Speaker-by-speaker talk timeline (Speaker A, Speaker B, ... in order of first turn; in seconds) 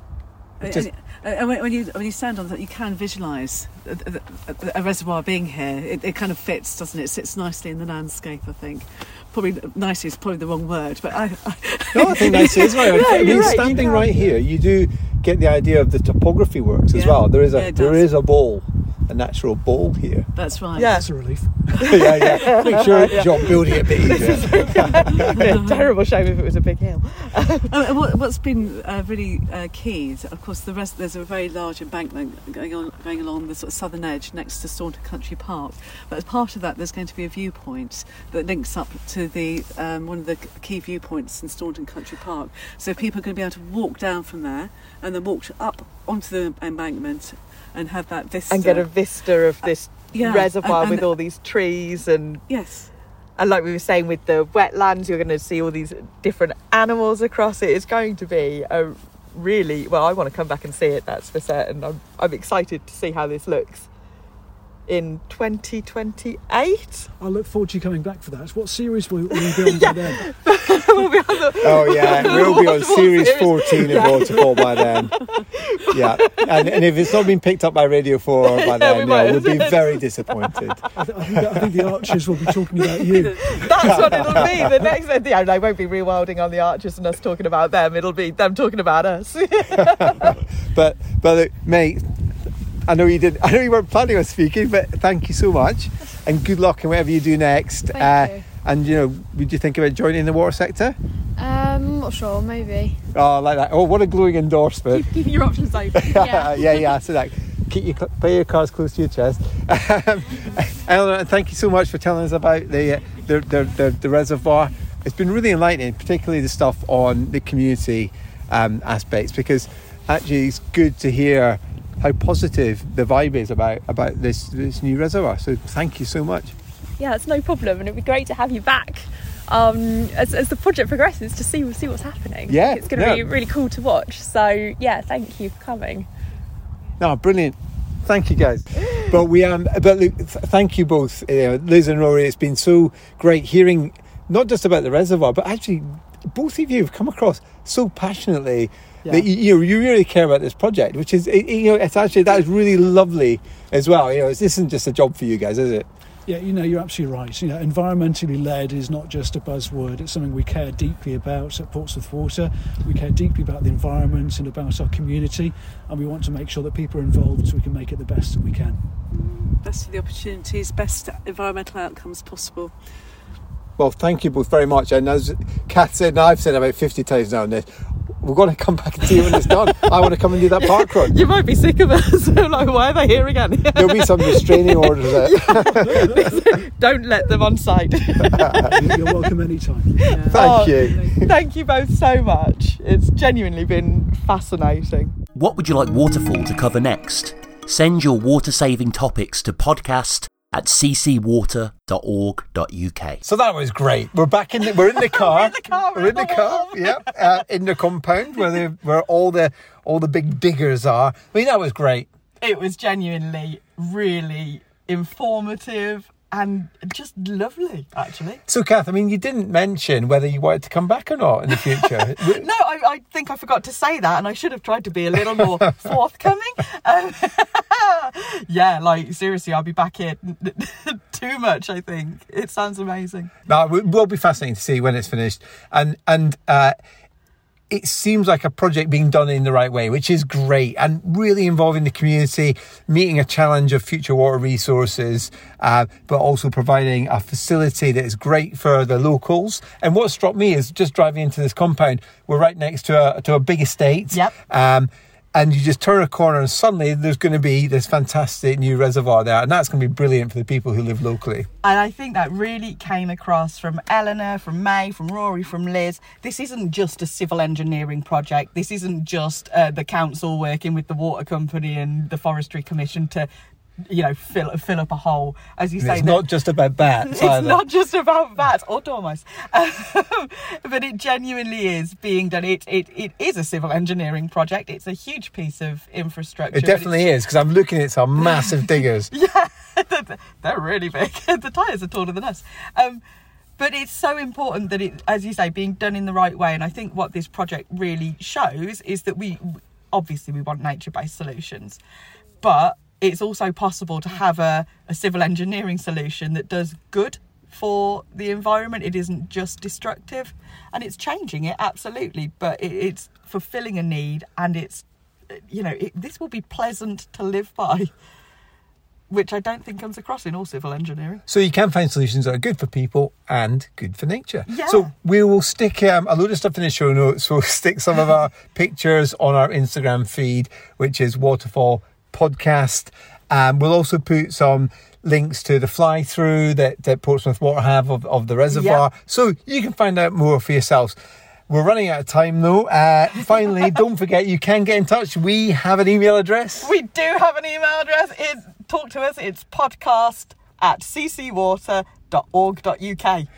Speaker A: 0.6-14.1, 16.9-18.1, 20.4-21.0, 25.2-25.9, 27.7-48.9, 49.6-51.1, 52.5-52.9, 169.1-172.7, 190.1-191.1
Speaker B: 11.9-20.3, 21.9-25.6, 71.6-75.1, 75.9-80.8, 83.8-84.7, 89.8-92.0, 92.9-101.0, 103.1-105.2, 105.9-126.5, 132.5-133.3, 137.0-155.9, 173.8-177.7, 178.2-181.1, 183.7-186.4, 188.3-188.8, 190.3-191.2, 203.2-212.1, 218.5-222.5, 233.5-236.8, 237.7-261.5, 275.8-277.6, 286.5-289.1, 321.3-340.9, 341.5-346.7
Speaker C: 12.1-14.1, 20.7-21.1, 21.8-27.8, 48.5-52.4, 53.4-63.9, 64.9-67.1, 69.3-77.3, 78.4-80.8, 81.5-90.4, 138.8-139.1, 179.1-189.1, 190.0-195.2, 204.6-207.4, 212.4-218.4, 221.5-233.3, 261.6-273.3, 273.9-276.3, 277.0-287.1, 288.2-293.0, 293.6-301.8, 302.4-317.9, 319.1-321.2, 324.5-324.9, 338.5-338.8, 346.6-353.3
Speaker D: 20.8-23.2, 67.2-70.2, 80.9-83.5, 156.3-168.8, 188.6-190.0
Speaker E: 97.9-98.5, 101.4-103.0, 106.0-106.5
Speaker F: 104.9-107.0, 127.0-136.1
Speaker G: 195.3-203.2